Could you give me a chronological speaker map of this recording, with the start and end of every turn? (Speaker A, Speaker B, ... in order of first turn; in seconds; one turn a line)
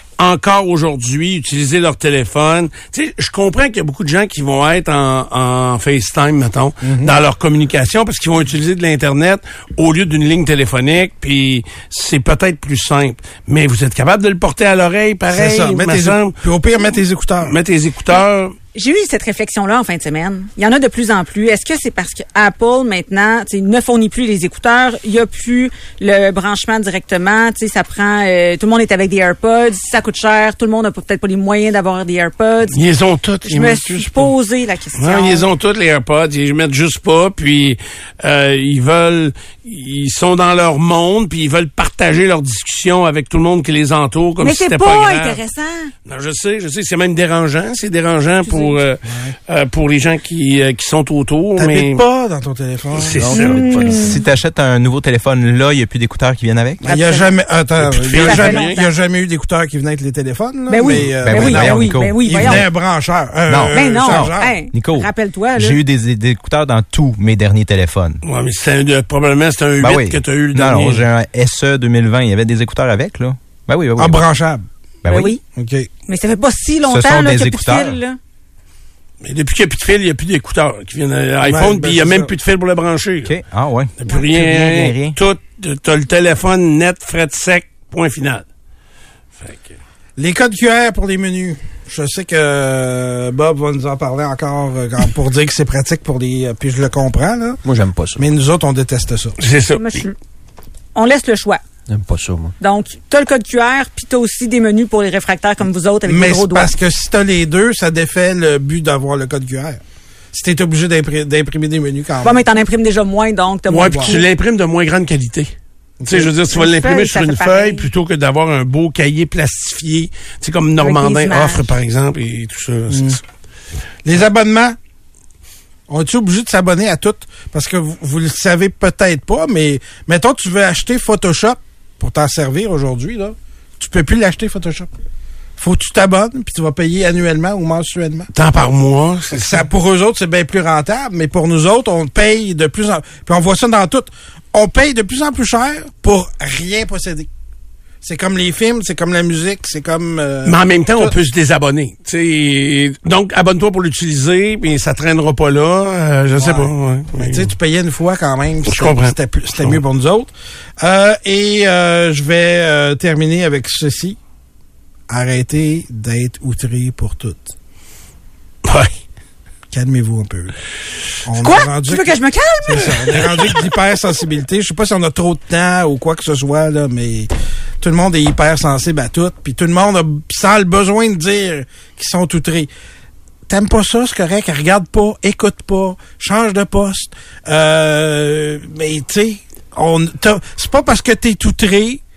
Speaker A: 0.2-16.4
Speaker B: 6.8-7.2
Speaker B: 15.3-17.6
Speaker A: 17.4-18.6
Speaker C: 18.7-32.8
Speaker A: 32.7-34.3
Speaker C: 33.4-35.5
Speaker A: 35.0-45.4
Speaker C: 44.4-45.9
Speaker A: 46.0-52.0
Speaker C: 48.5-48.8
Speaker B: 49.0-49.3
Speaker B: 51.6-53.3
Speaker A: 52.9-53.6
Speaker D: 53.1-54.1
Speaker C: 53.3-54.2
Speaker E: 53.9-56.8
Speaker C: 56.8-57.3
Speaker B: 56.8-64.5
Speaker A: 57.8-58.8
Speaker C: 58.1-58.9
Speaker C: 60.7-62.6
Speaker E: 61.2-62.7
Speaker E: 63.5-68.2
Speaker C: 63.7-65.8
Speaker A: 68.2-71.0
Speaker E: 69.8-74.2
Speaker B: 74.0-74.7
Speaker E: 75.0-75.3
Speaker C: 75.0-75.4
Speaker B: 75.5-75.9
Speaker C: 76.1-78.2
Speaker E: 76.8-78.0
Speaker A: 79.2-83.3
Speaker B: 81.4-82.3
Speaker E: 83.2-85.2
Speaker A: 84.0-88.4
Speaker A: 89.4-89.7
Speaker B: 90.2-97.6
Speaker D: 97.6-98.2
Speaker B: 98.2-99.4
Speaker A: 99.4-100.0
Speaker C: 99.8-100.1
Speaker C: 100.9-101.6
Speaker D: 101.9-102.5
Speaker C: 102.6-106.7
Speaker B: 106.0-112.4
Speaker C: 112.2-114.2
Speaker A: 113.7-115.5
Speaker B: 113.9-114.2
Speaker B: 116.0-116.3
Speaker A: 116.1-123.2
Speaker C: 116.5-117.9
Speaker C: 120.8-121.7
Speaker B: 122.9-123.2
Speaker B: 124.0-124.8
Speaker B: 125.9-134.9
Speaker B: 135.6-138.3
Speaker A: 138.3-139.6
Speaker B: 139.3-147.3
Speaker B: 148.0-151.1
Speaker A: 150.4-157.5
Speaker B: 156.4-164.2
Speaker A: 158.7-159.8
Speaker B: 165.1-167.5
Speaker A: 168.6-168.9
Speaker B: 169.7-170.5
Speaker B: 171.2-177.3
Speaker C: 171.3-173.1
Speaker B: 177.8-182.7
Speaker B: 183.5-192.0